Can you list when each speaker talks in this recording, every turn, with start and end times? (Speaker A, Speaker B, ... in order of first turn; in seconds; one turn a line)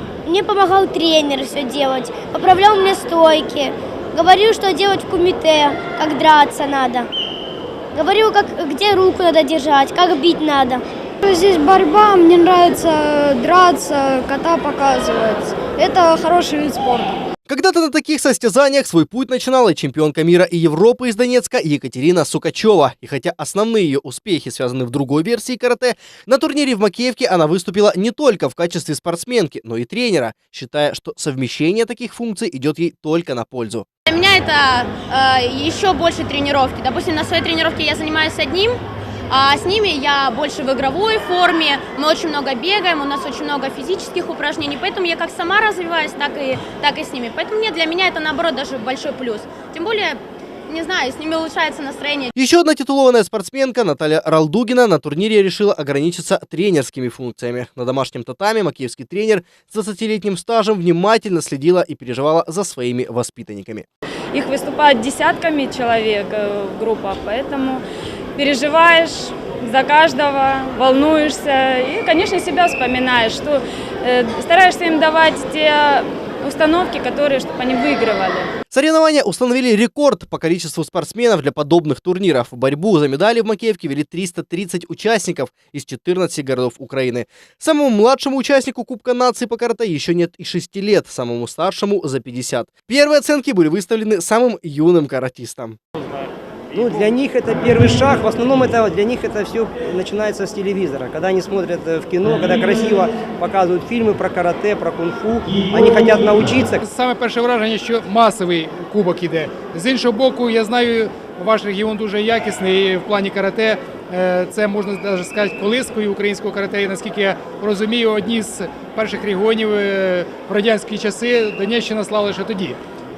Speaker A: 0.2-7.1
Speaker A: 7.9-10.8
Speaker B: 11.2-17.2
Speaker C: 17.5-33.9
Speaker D: 34.1-38.7
Speaker D: 39.3-52.3
Speaker C: 52.4-63.9
Speaker E: 64.3-67.8
Speaker E: 68.3-75.9
Speaker B: 75.4-76.0
Speaker E: 76.4-78.5
Speaker C: 78.7-95.8
Speaker F: 96.7-106.9
Speaker G: 106.8-122.8